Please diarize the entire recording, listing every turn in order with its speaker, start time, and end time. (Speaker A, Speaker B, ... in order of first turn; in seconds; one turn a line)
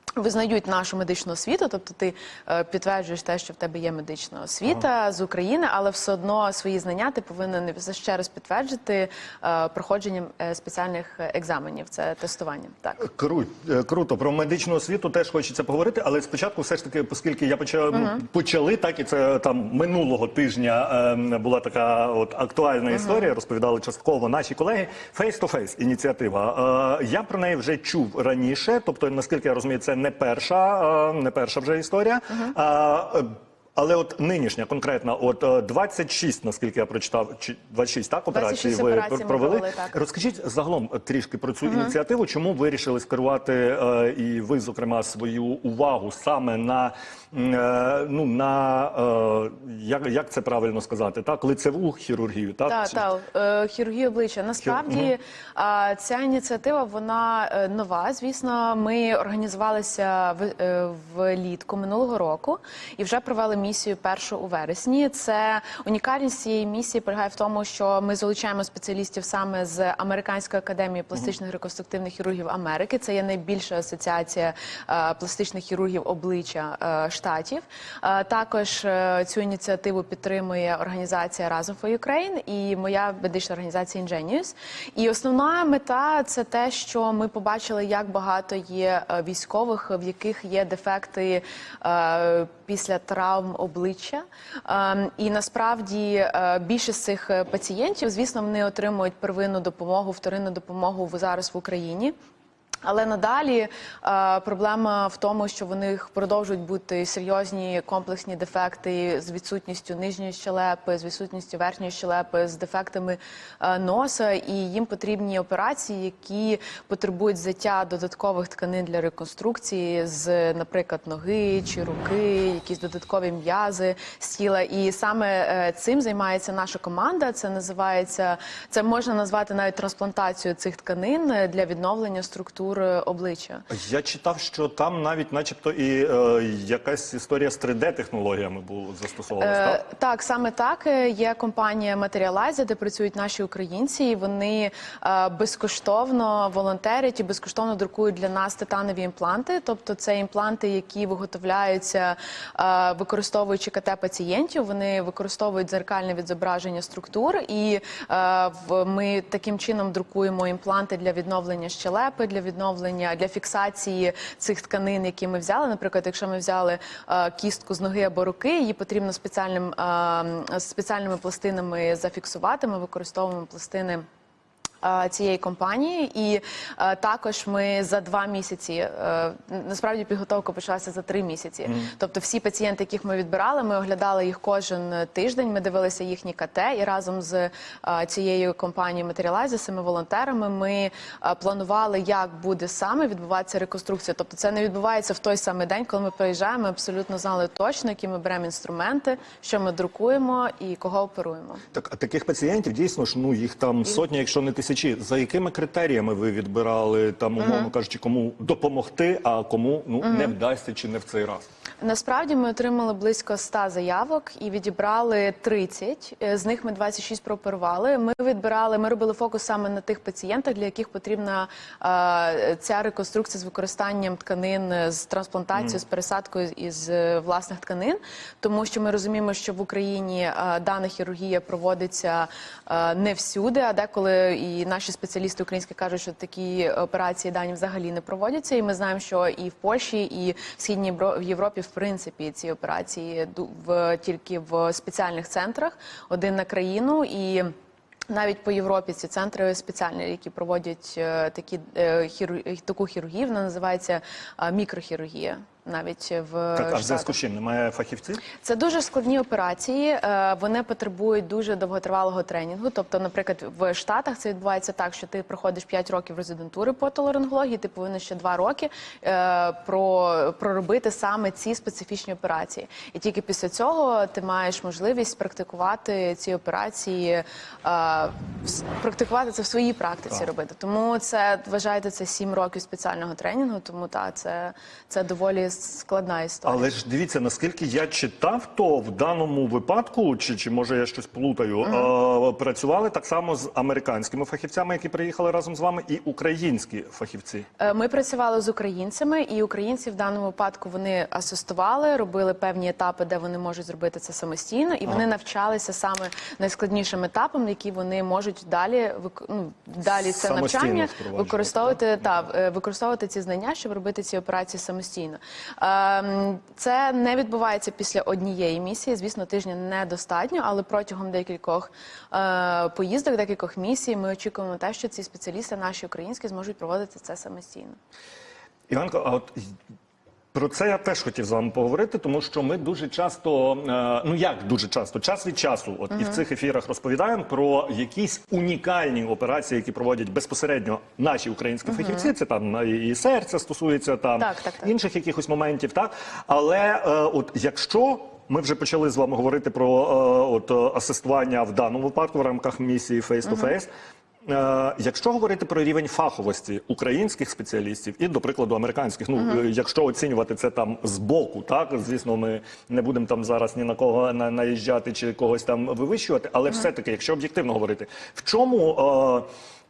Speaker A: 0.2-13.0
Speaker B: 13.0-53.0
Speaker A: 17.9-18.2
Speaker A: 22.9-23.3
Speaker A: 38.3-39.9
Speaker A: 41.7-41.9
Speaker A: 52.7-102.1
Speaker B: 54.6-55.1
Speaker A: 102.8-133.7
Speaker B: 133.7-139.8
Speaker A: 139.4-174.1
Speaker A: 174.8-201.6
Speaker B: 201.7-211.4
Speaker A: 207.4-207.7
Speaker A: 210.0-210.3
Speaker A: 211.8-247.5
Speaker A: 248.1-257.2
Speaker B: 256.6-258.2
Speaker A: 258.4-286.6
Speaker B: 286.4-297.5
Speaker A: 291.6-291.9
Speaker A: 297.6-327.8
Speaker B: 309.8-311.8
Speaker B: 328.7-329.5
Speaker B: 330.3-353.7
Speaker A: 341.7-342.1
Speaker A: 344.2-344.7
Speaker B: 354.3-369.3